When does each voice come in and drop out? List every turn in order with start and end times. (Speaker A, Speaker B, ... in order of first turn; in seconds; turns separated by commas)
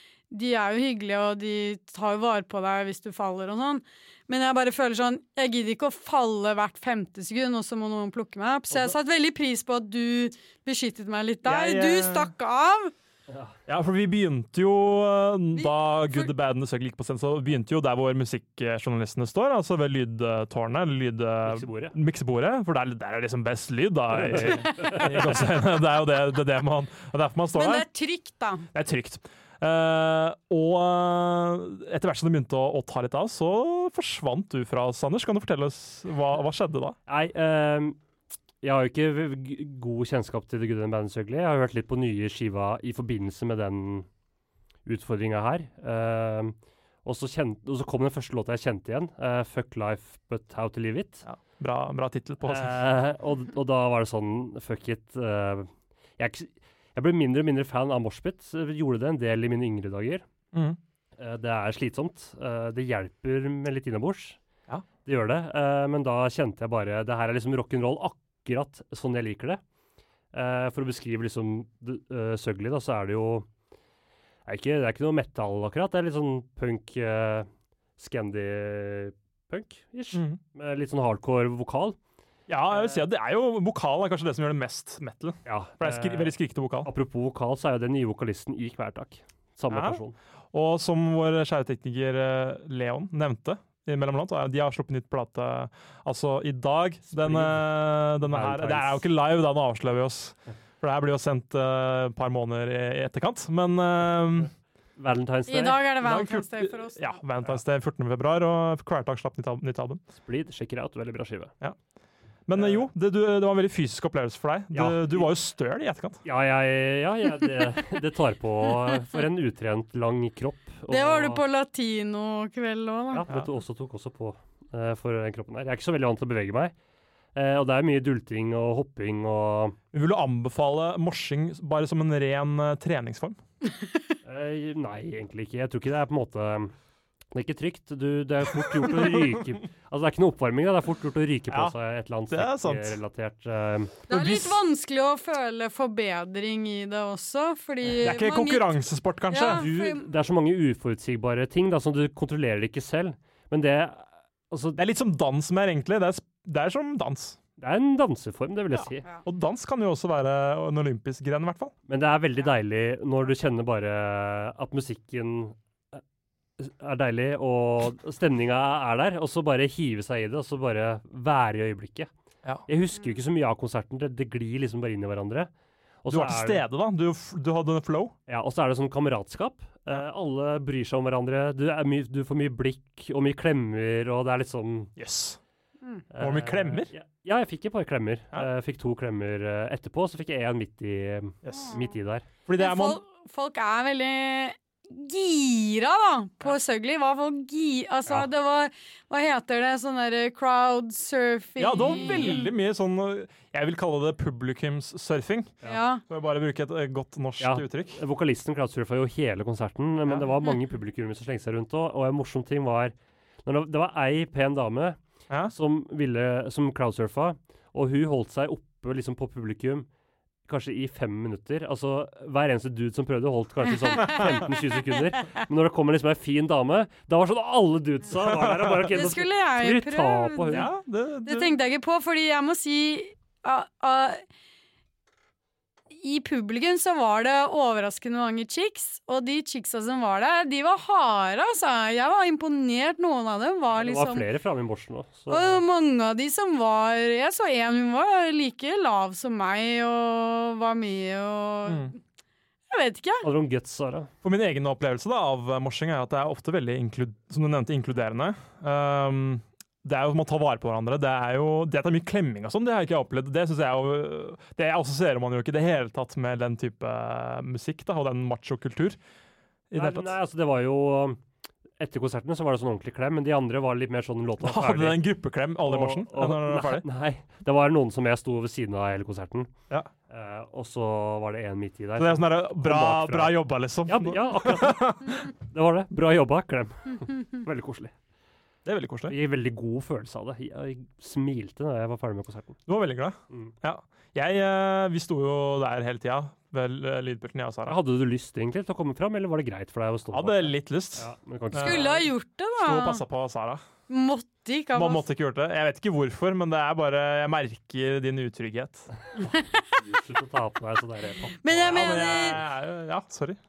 Speaker A: 0.3-12.9, Speaker B: 8.7-8.9, Speaker C: 11.4-12.3, Speaker B: 13.3-13.6, Speaker C: 13.7-27.9, Speaker A: 15.6-16.3, Speaker B: 21.4-21.9, Speaker B: 24.2-25.4, Speaker A: 24.6-25.0, Speaker A: 27.6-28.7, Speaker C: 28.7-37.0, Speaker B: 37.1-38.0, Speaker B: 38.6-44.1, Speaker B: 44.9-51.2, Speaker C: 51.3-52.8, Speaker B: 52.5-60.2, Speaker C: 60.5-60.8, Speaker B: 61.2-64.4, Speaker B: 65.0-69.6, Speaker B: 70.3-73.5, Speaker B: 74.5-82.0, Speaker C: 80.1-80.4, Speaker C: 82.5-86.9, Speaker B: 82.7-83.0, Speaker B: 85.5-90.2, Speaker C: 89.7-90.0, Speaker C: 90.5-104.5, Speaker B: 97.1-99.0, Speaker B: 105.0-105.9, Speaker A: 105.5-107.2, Speaker C: 106.0-110.0, Speaker B: 110.2-111.5, Speaker C: 112.5-116.2, Speaker B: 112.5-112.9, Speaker B: 114.7-115.3, Speaker B: 116.2-121.4, Speaker A: 120.9-123.2, Speaker B: 123.1-126.7, Speaker B: 127.3-129.8, Speaker C: 129.9-133.4, Speaker B: 134.2-136.7, Speaker B: 137.3-144.0, Speaker C: 138.8-139.4, Speaker C: 141.5-141.8, Speaker C: 142.3-143.0, Speaker A: 144.1-148.8, Speaker C: 144.1-144.6, Speaker C: 148.0-149.7, Speaker A: 149.3-150.0, Speaker B: 149.4-154.8, Speaker C: 154.8-157.4, Speaker B: 157.6-159.1, Speaker C: 158.7-161.7, Speaker B: 161.9-166.0, Speaker B: 166.6-172.1, Speaker B: 172.7-175.5, Speaker B: 176.0-176.7, Speaker C: 176.1-178.1, Speaker B: 178.3-184.9, Speaker C: 185.0-185.4, Speaker B: 186.1-192.3, Speaker C: 186.2-186.9, Speaker C: 191.4-191.8, Speaker C: 192.5-193.0, Speaker A: 192.6-202.5, Speaker C: 201.6-205.6, Speaker B: 202.0-202.3, Speaker A: 205.7-206.0, Speaker C: 206.1-208.0, Speaker B: 207.4-212.9, Speaker B: 213.4-215.0, Speaker B: 215.5-219.9, Speaker B: 220.5-230.7, Speaker A: 223.9-224.2, Speaker C: 228.2-229.0, Speaker A: 228.9-230.7, Speaker C: 230.5-231.6, Speaker A: 231.2-234.2, Speaker A: 235.9-244.2, Speaker B: 243.7-245.6, Speaker A: 245.3-252.0, Speaker C: 251.7-251.9, Speaker A: 252.7-253.2, Speaker B: 253.2-254.1, Speaker C: 254.2-269.0, Speaker C: 269.7-270.1, Speaker B: 269.7-271.2, Speaker B: 271.8-275.1, Speaker C: 274.4-276.9, Speaker B: 275.6-279.5, Speaker B: 280.1-287.9, Speaker C: 282.0-285.3, Speaker C: 288.6-289.1, Speaker B: 289.1-292.6, Speaker C: 292.7-297.8, Speaker B: 297.7-302.1, Speaker C: 300.1-302.0, Speaker A: 301.6-303.0, Speaker C: 302.6-303.6, Speaker A: 303.9-305.1, Speaker C: 304.7-308.9, Speaker A: 309.3-309.6, Speaker B: 309.7-312.4, Speaker A: 311.4-312.4, Speaker C: 311.7-313.4